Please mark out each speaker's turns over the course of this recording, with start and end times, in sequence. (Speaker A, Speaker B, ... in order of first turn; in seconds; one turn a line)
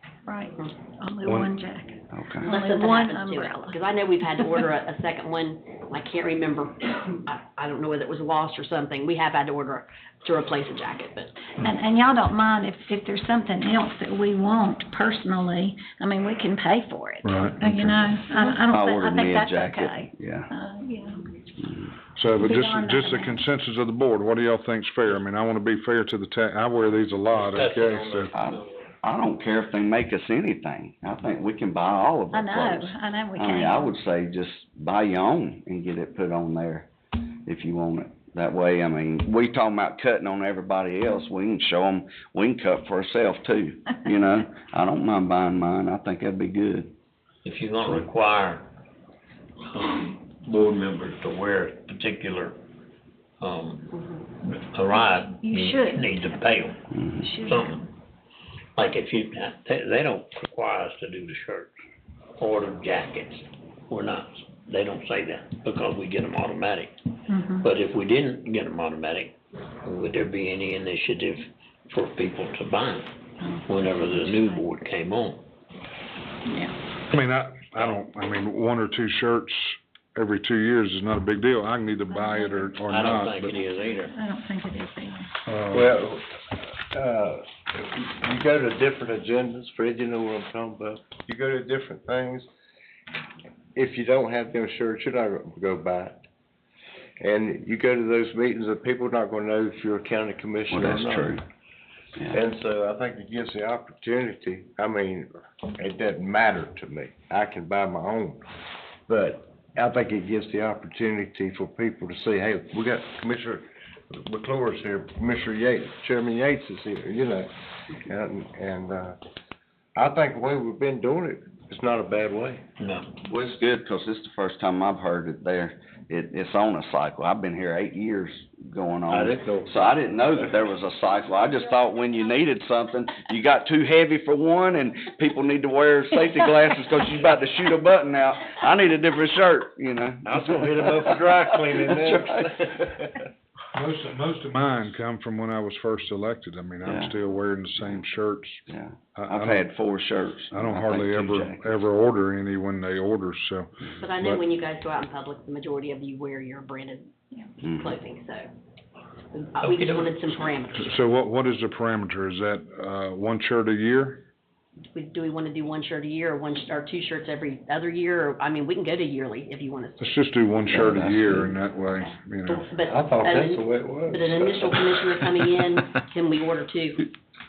Speaker A: 0.3-3.8
Speaker B: 1.2-1.5
Speaker C: 2.1-2.5
Speaker D: 2.4-11.5
Speaker A: 11.6-21.2
Speaker B: 17.2-18.1
Speaker C: 18.7-20.5
Speaker C: 21.6-21.9
Speaker B: 22.1-28.3
Speaker A: 22.4-23.4
Speaker E: 27.3-28.8
Speaker C: 28.3-36.9
Speaker A: 32.3-34.0
Speaker C: 37.5-46.9
Speaker E: 47.4-48.6
Speaker E: 49.7-52.6
Speaker E: 53.4-57.9
Speaker D: 53.9-54.2
Speaker A: 55.3-56.7
Speaker C: 57.0-57.3
Speaker A: 57.2-57.9
Speaker E: 58.8-61.7
Speaker E: 62.4-66.9
Speaker A: 67.3-67.7
Speaker E: 67.5-75.4
Speaker A: 73.4-74.6
Speaker A: 76.5-76.7
Speaker B: 77.1-83.6
Speaker A: 82.1-82.8
Speaker E: 82.9-84.2
Speaker A: 83.5-85.3
Speaker B: 85.5-85.9
Speaker F: 85.7-92.5
Speaker F: 93.8-96.2
Speaker F: 97.2-101.4
Speaker C: 100.7-101.4
Speaker F: 102.3-108.4
Speaker F: 109.1-119.2
Speaker F: 120.0-122.6
Speaker E: 122.8-123.1
Speaker C: 123.2-142.4
Speaker F: 129.1-129.8
Speaker F: 140.2-143.2
Speaker B: 143.7-148.6
Speaker C: 146.8-147.1
Speaker C: 148.7-151.7
Speaker B: 149.2-149.7
Speaker B: 150.5-154.4
Speaker D: 154.0-157.2
Speaker C: 157.6-157.9
Speaker D: 157.7-158.5
Speaker D: 159.3-161.0
Speaker E: 159.6-160.4
Speaker B: 160.8-164.2
Speaker D: 164.9-170.2
Speaker B: 170.0-172.7
Speaker C: 170.7-171.5
Speaker D: 172.5-177.1
Speaker F: 172.9-174.8